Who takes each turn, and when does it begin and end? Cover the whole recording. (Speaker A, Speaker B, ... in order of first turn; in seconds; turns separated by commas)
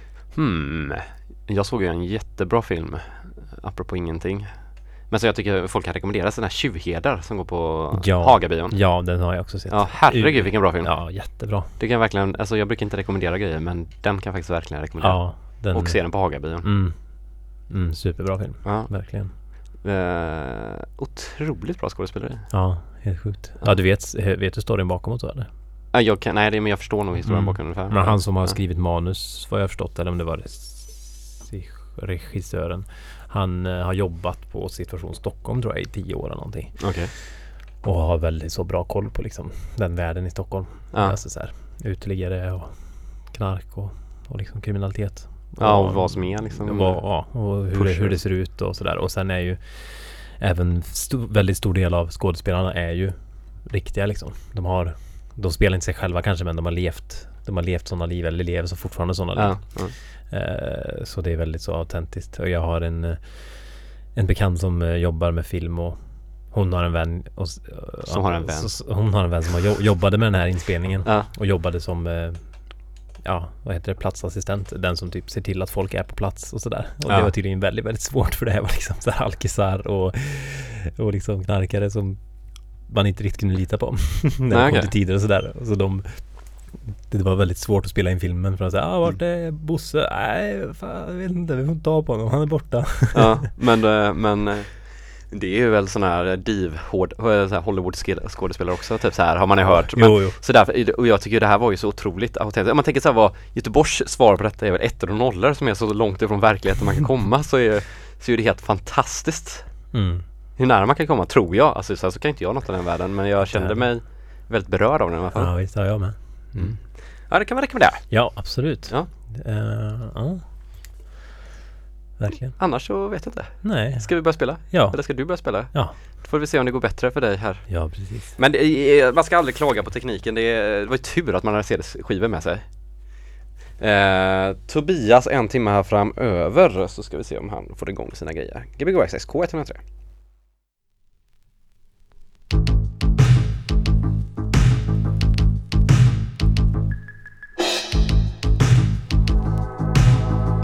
Speaker A: 0.3-16.7, Speaker B: 7.9-11.7, Speaker B: 15.0-19.3, Speaker A: 18.6-22.5, Speaker B: 22.5-25.5, Speaker A: 25.9-28.6, Speaker B: 27.2-93.4, Speaker A: 36.8-37.1, Speaker A: 40.9-41.2, Speaker A: 45.6-48.2, Speaker A: 59.4-60.0, Speaker A: 68.1-69.0, Speaker A: 71.0-71.3, Speaker A: 77.1-77.3, Speaker A: 84.5-84.9, Speaker A: 93.1-109.8, Speaker B: 99.6-100.4, Speaker B: 109.9-110.2, Speaker A: 110.6-116.0, Speaker B: 113.4-113.9, Speaker B: 115.3-116.8, Speaker A: 116.5-119.1, Speaker B: 118.1-120.4, Speaker B: 122.2-122.6, Speaker A: 122.6-133.2, Speaker B: 123.6-126.0, Speaker B: 127.7-128.3, Speaker A: 133.8-139.8